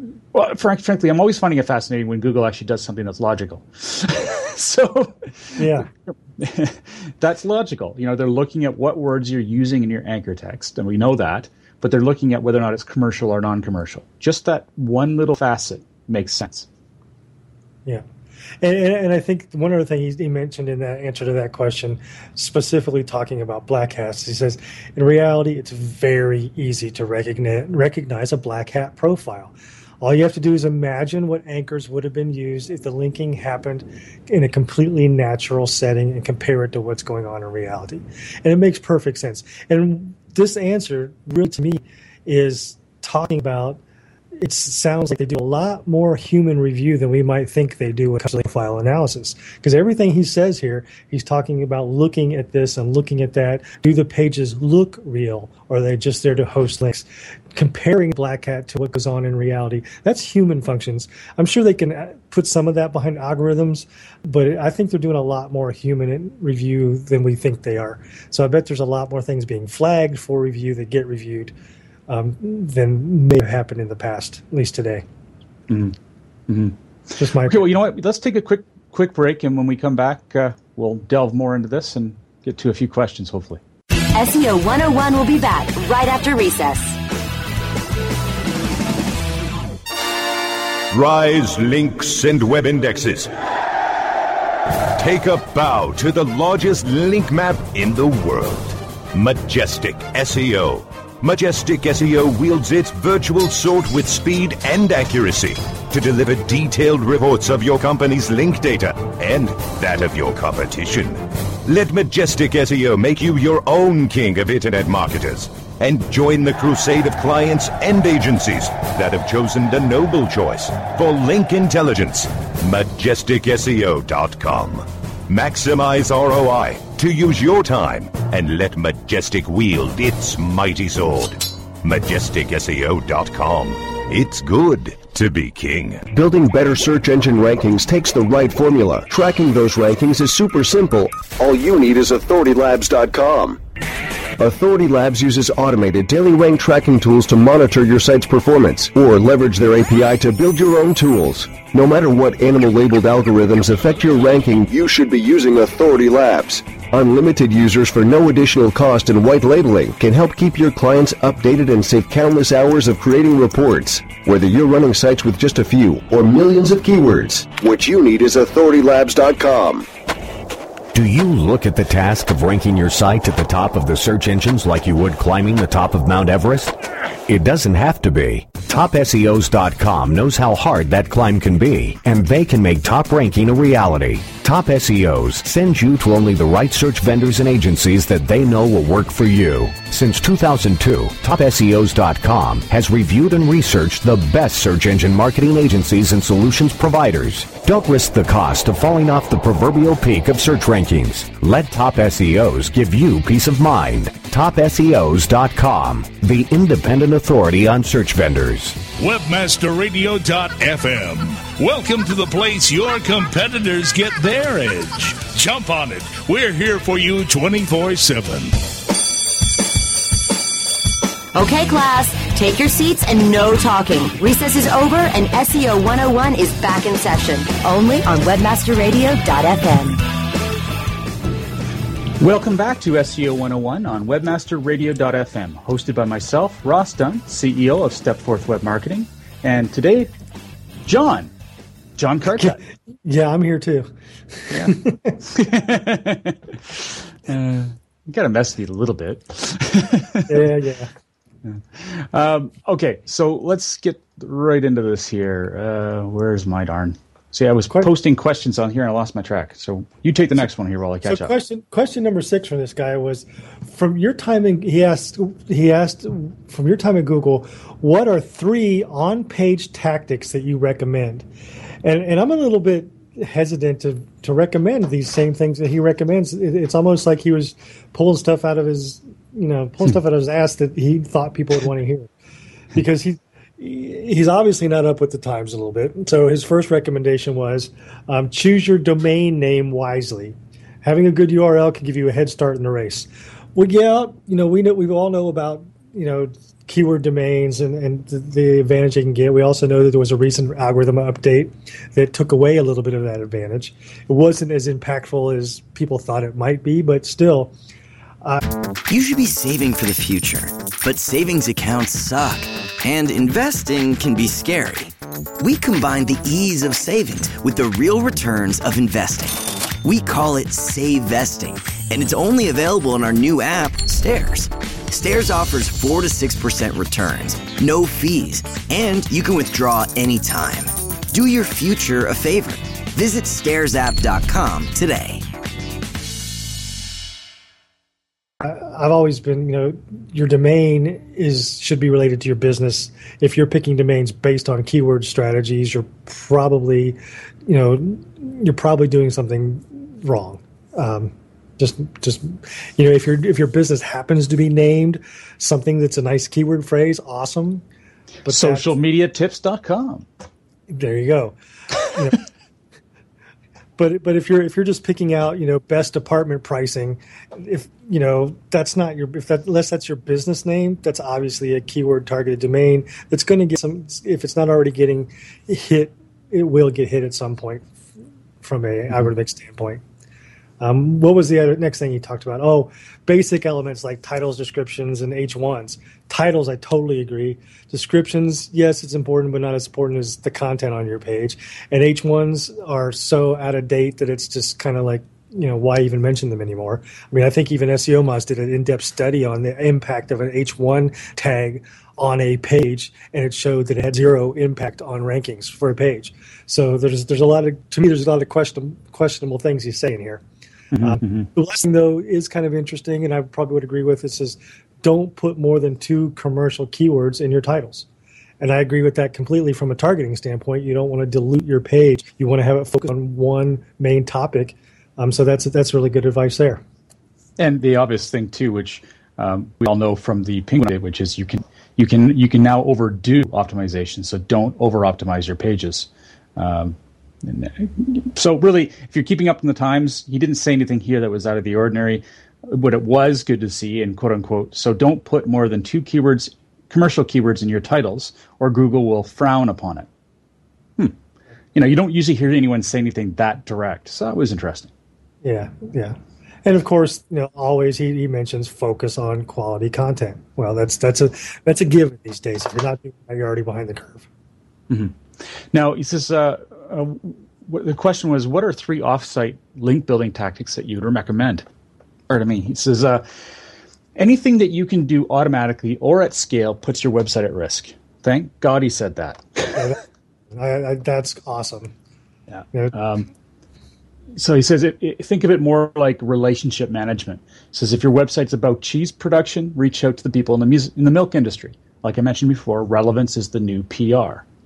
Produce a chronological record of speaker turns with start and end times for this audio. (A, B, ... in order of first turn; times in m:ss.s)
0:00.3-0:05.8 A
0:05.6-0:05.9 B
0:06.4-0:16.7 A
0:18.6-0:43.8 B
0:44.4-1:11.5 B
1:12.1-1:15.0 B
1:15.7-1:15.9 A
1:16.5-1:16.7 A
1:17.2-1:17.7 B
1:17.4-1:23.6 A
1:24.1-1:27.0 C
1:30.9-1:33.3 D
1:35.0-2:16.1 D
2:16.1-2:23.6 E
2:24.4-2:49.9 E
2:50.9-2:56.7 F
2:57.2-3:28.8 F
3:29.0-3:38.6 G
3:41.3-3:50.0 C
3:52.2-4:00.1 A
4:00.8-4:01.3 A
4:02.0-4:02.6 A
4:02.4-4:03.9 B
4:04.4-4:05.1 B
4:04.5-4:10.4 A
4:10.3-4:10.9 B
4:11.4-4:21.3 A
4:21.1-4:31.2 B
4:31.8-4:42.1 B
4:42.7-5:07.5 B
5:08.9-5:35.2 H
5:38.4-5:57.6 B
5:58.2-5:58.7 B
5:58.2-6:00.0 A
6:00.7-6:01.4 B
6:01.9-6:02.2 B
6:03.8-6:17.6 B
6:18.4-6:19.8 B
6:20.6-6:50.2 B
6:50.7-6:51.3 A
6:50.8-6:57.9 B
6:58.4-7:06.6 B
7:07.4-7:29.9 A
7:31.5-7:34.7 A
7:35.2-7:44.1 B
7:44.7-7:45.0 A
7:45.5-7:51.4 A
7:52.1-7:53.0 A
7:54.0-7:59.7 A
7:59.5-7:59.8 B
8:00.3-8:01.7 B
8:02.3-8:03.1 A
8:04.2-8:14.2 A